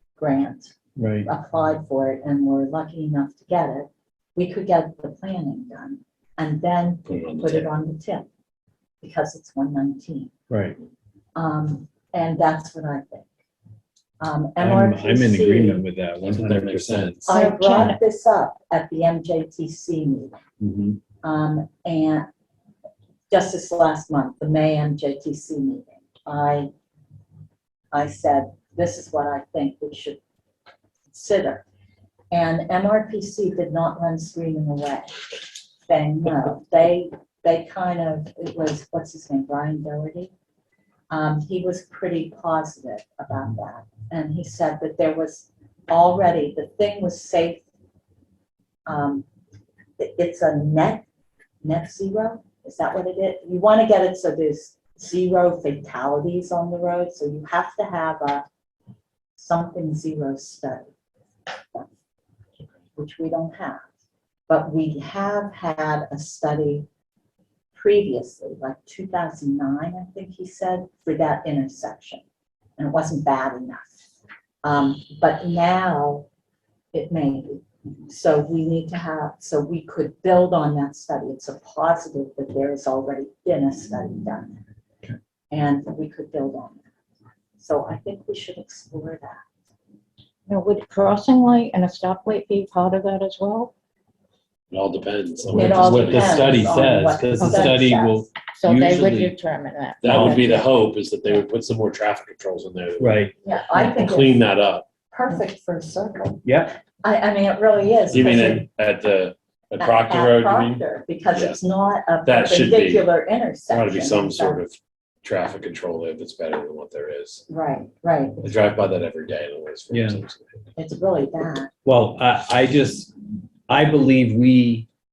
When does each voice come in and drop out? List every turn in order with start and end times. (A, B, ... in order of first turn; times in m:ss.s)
0:00.2-0:08.3 A
0:01.0-0:01.3 B
0:07.0-0:07.7 C
0:09.0-0:10.3 A
0:10.5-0:10.8 B
0:11.4-0:13.3 A
0:14.2-0:15.8 A
0:14.6-0:17.2 B
0:16.2-0:17.4 C
0:17.3-0:18.0 D
0:17.3-0:20.4 A
0:20.6-0:21.0 B
0:21.2-0:22.3 A
0:23.3-0:26.7 A
0:27.9-0:30.2 A
0:31.1-0:31.6 A
0:32.3-0:35.3 A
0:35.9-0:40.3 A
0:41.1-0:47.6 A
0:48.9-0:49.3 A
0:50.0-0:51.1 A
0:51.6-0:58.4 A
0:59.4-1:00.9 A
1:03.0-1:03.9 A
1:04.5-1:06.9 A
1:07.7-1:12.2 A
1:12.8-1:13.9 A
1:14.6-1:16.3 A
1:16.9-1:24.6 A
1:25.5-1:26.8 A
1:27.6-1:29.4 A
1:30.5-1:33.7 D
1:34.7-1:36.8 C
1:35.5-1:39.4 B
1:35.5-1:38.3 A
1:37.4-1:37.9 D
1:38.5-1:40.8 D
1:40.0-1:44.9 C
1:40.1-1:40.4 B
1:43.0-1:43.3 B
1:43.4-1:44.5 A
1:45.1-1:48.7 A
1:46.4-1:46.7 B
1:48.1-1:51.6 C
1:49.8-1:54.6 A
1:52.2-1:53.1 C
1:53.7-1:57.4 C
1:57.5-1:58.5 A
1:58.4-2:00.6 C
1:59.9-2:00.2 B
2:00.8-2:01.7 A
2:01.8-2:03.1 B
2:03.7-2:04.9 B